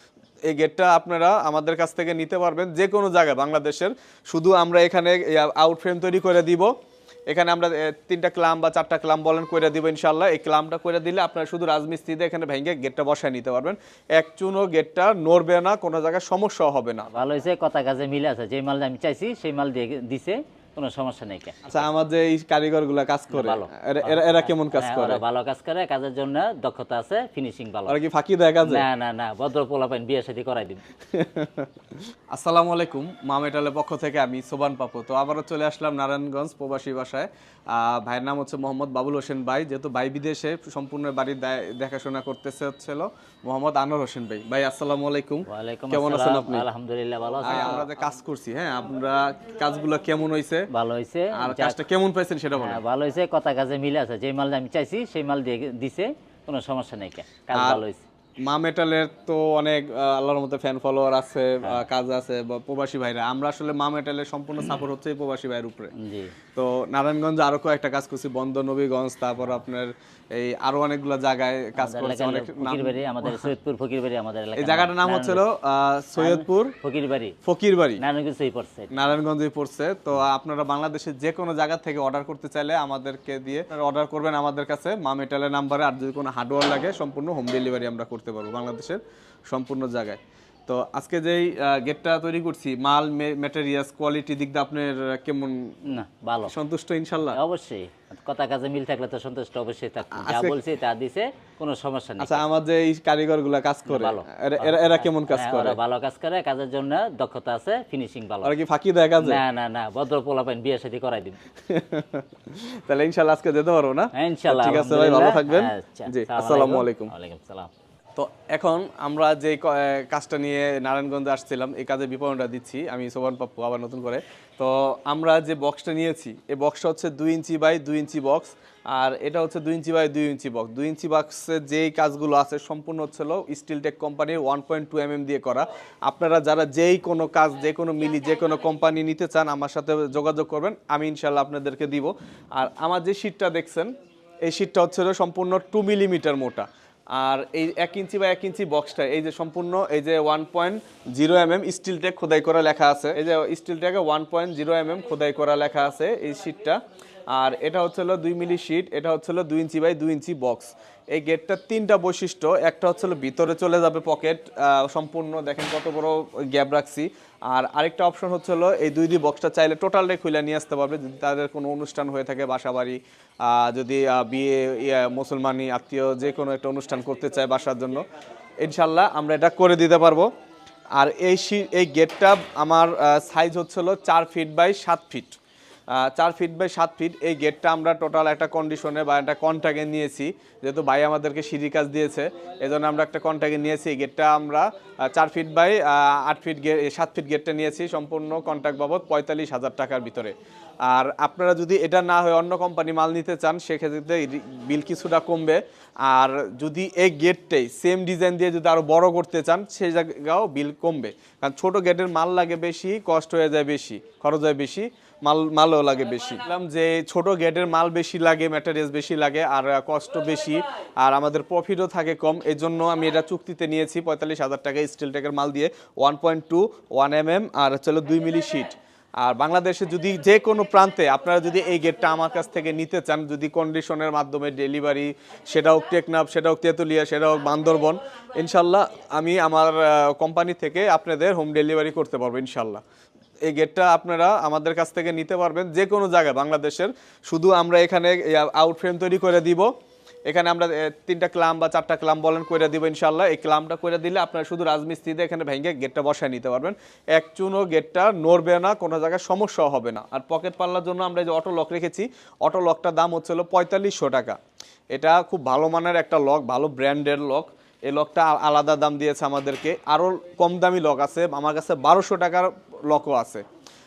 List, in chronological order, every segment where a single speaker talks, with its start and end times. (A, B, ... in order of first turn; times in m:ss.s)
0:00.5-0:06.7 A
0:07.3-0:17.1 A
0:17.1-0:21.8 B
0:21.6-0:25.2 A
0:23.3-0:28.0 B
0:27.9-0:28.8 A
0:28.6-0:30.8 B
0:31.1-0:31.7 A
0:32.3-0:46.6 A
0:45.5-0:47.9 B
0:47.4-0:50.7 A
0:50.7-0:51.8 B
0:51.3-0:52.8 A
0:52.5-0:58.0 B
0:57.5-0:57.8 A
0:58.4-1:05.9 A
1:06.0-1:06.3 B
1:06.5-1:13.5 A
1:11.8-1:15.4 B
1:14.6-1:16.7 A
1:16.2-1:17.4 B
1:17.4-1:18.0 A
1:18.0-1:19.0 B
1:18.9-1:35.8 A
1:35.8-1:36.5 B
1:36.5-1:37.4 A
1:37.3-1:42.4 B
1:40.1-1:40.6 A
1:42.2-1:45.8 A
1:43.8-1:48.5 B
1:48.4-1:49.4 A
1:49.2-1:51.4 B
1:51.7-1:57.1 A
1:54.1-1:57.7 B
1:58.2-2:23.9 A
2:24.4-2:36.8 A
2:37.3-2:58.0 A
2:58.6-3:00.3 A
3:01.0-3:05.4 A
3:05.9-3:20.3 A
3:20.9-4:02.8 A
4:03.5-4:09.7 A
4:10.3-4:24.4 A
4:24.9-4:33.4 A